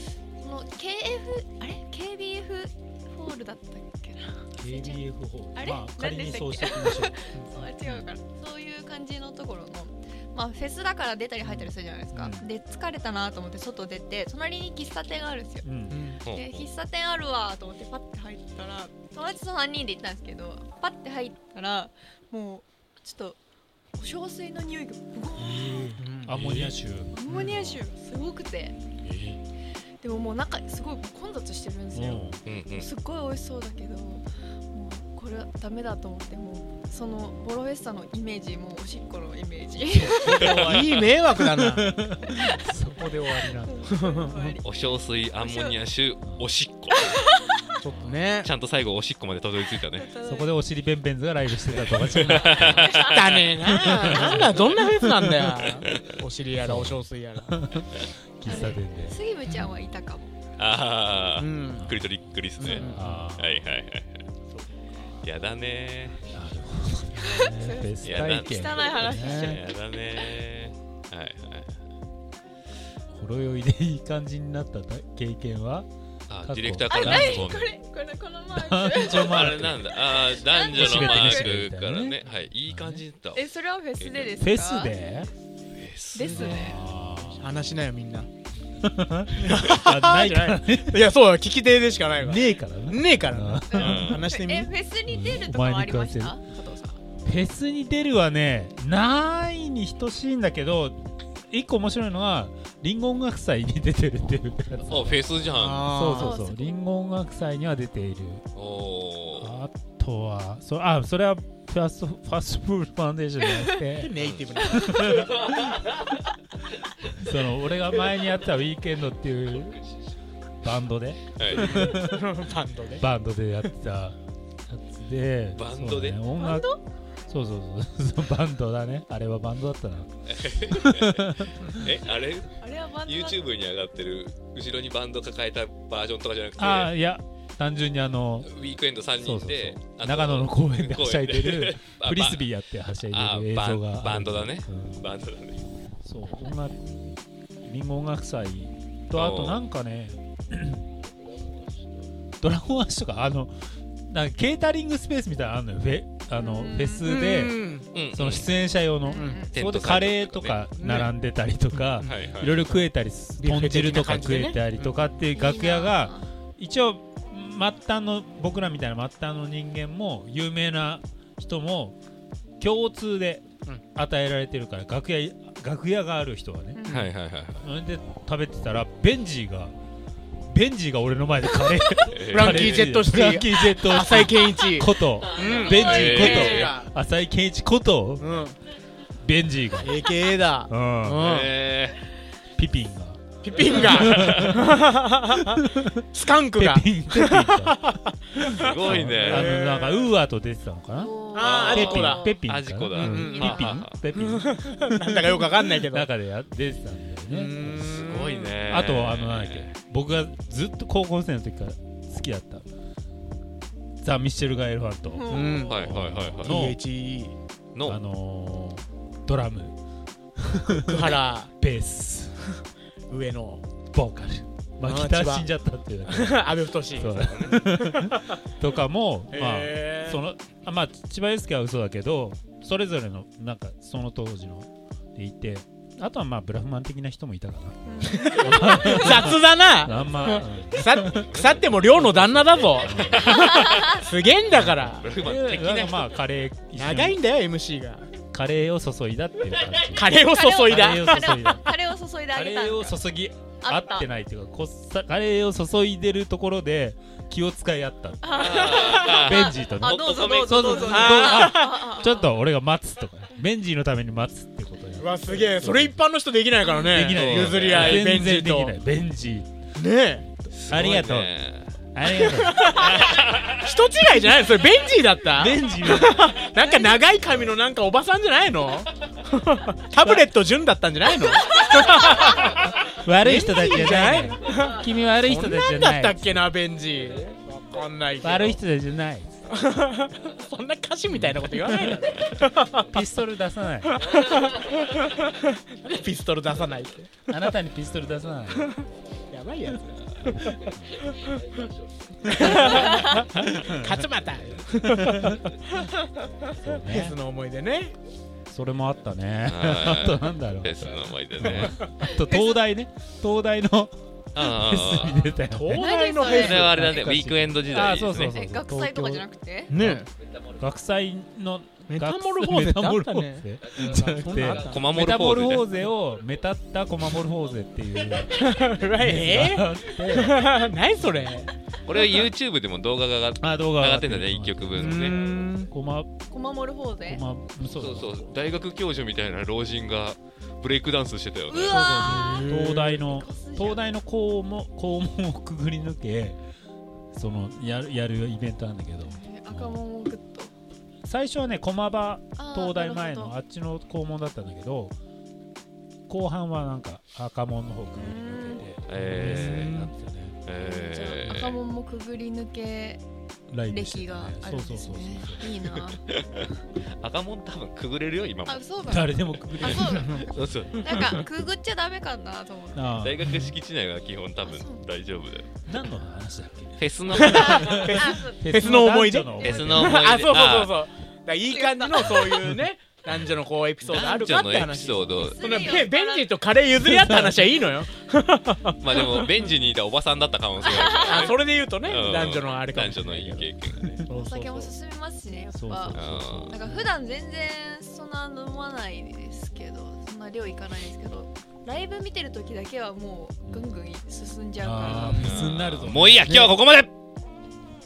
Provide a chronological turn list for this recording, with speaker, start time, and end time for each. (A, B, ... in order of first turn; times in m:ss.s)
0:00.4-0:15.6 A
0:04.6-0:08.1 B
0:11.4-0:12.5 B
0:15.6-0:16.0 B
0:15.9-0:16.2 C
0:16.2-0:16.6 D
0:16.2-0:23.4 A
0:24.0-0:25.9 A
0:25.4-0:27.8 B
0:26.0-0:26.7 C
0:27.1-0:28.8 A
0:27.3-0:27.5 C
0:29.0-0:29.4 B
0:30.0-0:40.5 A
0:31.9-0:32.4 B
0:32.4-0:32.9 D
0:39.8-0:41.0 B
0:40.2-0:41.9 C
0:40.3-0:40.9 D
0:41.8-0:43.9 B
0:42.3-0:42.7 A
0:43.4-0:44.7 A
0:43.9-0:44.5 C
0:44.6-0:47.2 D
0:45.4-0:45.8 A
0:47.0-0:47.7 A
0:47.8-0:48.5 C
0:48.4-0:50.1 D
0:49.9-0:50.6 A
0:50.2-0:52.9 B
0:51.7-0:53.5 D
0:52.2-0:54.4 A
0:53.0-0:57.6 C
0:53.6-0:55.4 B
0:55.6-0:56.0 D
0:56.6-0:59.2 B
0:58.4-1:00.3 A
1:00.6-1:04.2 D
1:01.4-1:01.9 C
1:01.8-1:02.1 B
1:02.6-1:03.2 C
1:02.7-1:03.6 B
1:04.5-1:04.8 C
1:05.2-1:06.2 D
1:06.3-1:09.6 B
1:07.2-1:10.3 A
1:08.0-1:11.7 D
1:13.1-1:15.9 B
1:16.3-1:17.7 D
1:16.4-1:17.4 B
1:16.9-1:21.5 A
1:18.5-1:19.8 B
1:19.1-1:23.5 D
1:20.7-1:23.0 B
1:23.3-1:25.0 A
1:24.0-1:24.3 D
1:24.4-1:25.3 B
1:25.7-1:26.8 D
1:26.1-1:26.8 A
1:26.2-1:27.5 B
1:27.1-1:28.3 C
1:28.8-1:31.0 B
1:29.4-1:34.7 C
1:32.2-1:34.2 B
1:33.7-1:37.0 A
1:33.8-1:34.3 D
1:35.1-1:36.4 B
1:37.2-1:41.0 B
1:41.5-1:45.2 B
1:44.8-1:46.0 D
1:45.5-1:46.4 C
1:45.9-1:48.4 B
1:46.1-1:46.8 A
1:48.6-1:49.6 D
1:49.4-1:54.2 B
1:53.5-1:53.7 A
1:53.9-1:55.3 C
1:54.7-1:55.7 B
1:57.1-1:59.8 B
2:00.6-2:02.2 B
2:01.4-2:01.8 D
2:01.5-2:03.0 C
2:03.0-2:06.7 B
2:05.5-2:06.2 D
2:06.3-2:06.8 A
2:07.3-2:10.1 B
2:10.3-2:16.9 D
2:10.8-2:11.7 B
2:12.6-2:13.4 A
2:16.6-2:18.5 B
2:18.4-2:22.5 D
2:19.1-2:25.0 B
2:23.0-2:25.6 D
2:26.0-2:30.8 B
2:29.1-2:29.6 D
2:32.4-2:33.5 B
2:34.1-2:52.0 B
2:36.3-2:37.0 A
2:37.0-2:37.9 C
2:37.9-2:38.5 D
2:39.0-2:39.5 A
2:39.2-2:39.4 C
2:39.5-2:40.6 D
2:40.8-2:41.1 C
2:41.7-2:45.0 C
2:42.0-2:42.6 D
2:45.3-2:46.2 A
2:52.6-2:56.8 B
2:56.7-2:57.1 A
2:56.9-2:57.7 D
2:57.6-2:59.7 B
3:00.5-3:08.3 B
3:02.1-3:02.9 D
3:02.3-3:06.9 C
3:05.6-3:06.7 D
3:06.1-3:06.7 A
3:08.2-3:08.6 C
3:09.2-3:10.0 B
3:09.8-3:11.5 C
3:10.7-3:11.2 B
3:11.2-3:12.0 D
3:12.6-3:14.7 B
3:13.4-3:20.1 C
3:13.6-3:14.6 D
3:15.5-3:16.0 B
3:16.6-3:17.8 B
3:18.4-3:27.9 B
3:18.4-3:19.6 D
3:20.9-3:22.4 A
3:21.3-3:22.2 C
3:21.4-3:24.0 D
3:22.9-3:23.6 C
3:23.2-3:23.8 A
3:24.2-3:26.1 C
3:27.3-3:28.5 C
3:27.8-3:29.7 D
3:28.7-3:32.6 B
3:34.0-3:36.8 B
3:35.1-3:35.7 A
3:35.3-3:37.4 C
3:35.7-3:36.7 D
3:37.7-3:38.0 D
3:37.8-3:39.8 B
3:40.4-3:42.4 B
3:40.8-3:41.5 C
3:43.1-3:43.6 C
3:43.9-4:03.7 B
3:44.8-3:45.5 C
3:46.0-3:48.4 C
3:47.0-3:47.6 D
3:49.3-3:50.2 C
3:57.8-3:59.2 A
3:58.1-4:06.1 C
4:01.3-4:01.7 D
4:02.8-4:03.7 D
4:03.3-4:04.0 A
4:04.5-4:07.2 B
4:04.7-4:05.6 D
4:06.7-4:08.1 C
4:08.3-4:11.6 B
4:09.9-4:11.4 C
4:10.2-4:13.0 A
4:12.3-4:26.1 B
4:13.6-4:14.1 A
4:18.2-4:22.4 A
4:18.3-4:21.2 D
4:20.9-4:21.8 C
4:25.0-4:28.8 C
4:26.6-4:27.1 A
4:26.8-4:29.6 B
4:27.1-4:28.1 D
4:29.8-4:30.3 C
4:30.4-4:31.3 B
4:30.5-4:31.7 D
4:31.9-4:32.8 B
4:32.0-4:33.1 C
4:32.6-4:33.7 D
4:33.6-4:48.6 C
4:35.3-4:37.0 B
4:41.4-4:42.4 A
4:43.0-4:46.5 B
4:48.2-4:49.4 B
4:49.5-4:52.9 C
4:51.1-4:52.0 B
4:52.8-4:54.0 B
4:53.9-4:57.1 C
4:57.3-4:58.7 B
4:58.6-5:00.4 C
5:00.2-5:01.1 B
5:02.2-5:04.0 B
5:02.3-5:05.5 C
5:02.7-5:03.2 A
5:04.8-5:05.4 B
5:06.5-5:07.2 B
5:06.8-5:07.9 C
5:08.5-5:15.9 B
5:09.4-5:11.8 D
5:12.0-5:12.6 A
5:14.3-5:15.3 D
5:15.5-5:17.0 C
5:15.7-5:16.6 A
5:16.2-5:18.4 D
5:16.5-5:20.0 B
5:18.2-5:19.8 A
5:19.7-5:20.1 C
5:20.6-5:31.4 B
5:21.9-5:24.9 C
5:24.5-5:25.6 D
5:28.4-5:31.5 C
5:31.8-5:35.2 D
5:31.9-5:32.3 A
5:33.4-5:36.1 B
5:34.7-5:35.7 C
5:36.3-5:37.2 A
5:37.0-5:38.3 B
5:37.6-5:41.8 D
5:41.5-5:43.9 A
5:41.7-5:46.4 B
5:42.1-5:43.0 C
5:47.1-5:49.8 B
5:49.0-5:50.5 A
5:51.0-5:55.0 B
5:52.4-5:53.4 A
5:56.1-6:00.4 B
5:58.0-5:58.7 A
5:58.9-5:59.8 D
5:59.2-5:59.9 C
6:00.4-6:01.6 D
6:00.6-6:03.0 A
6:03.5-6:05.5 B
6:03.7-6:06.0 A
6:06.1-6:11.3 D
6:08.4-6:13.0 A
6:08.8-6:10.2 B
6:12.7-6:13.4 B
6:13.0-6:15.5 D
6:14.4-6:14.8 A
6:15.6-6:20.0 B
6:16.8-6:18.0 D
6:17.2-6:29.3 C
6:17.2-6:18.7 A
6:19.4-6:19.6 A
6:19.4-6:20.8 D
6:21.5-6:22.4 A
6:23.8-6:25.8 D
6:25.1-6:26.4 A
6:26.8-6:27.7 B
6:28.7-6:34.0 D
6:30.6-6:31.3 A
6:31.0-6:33.5 C
6:34.0-6:34.7 C
6:34.2-6:45.5 A
6:35.5-6:36.9 B
6:35.9-6:36.6 D
6:43.4-6:43.8 B
6:44.6-6:46.6 B
6:44.9-6:46.9 D
6:45.1-6:45.4 C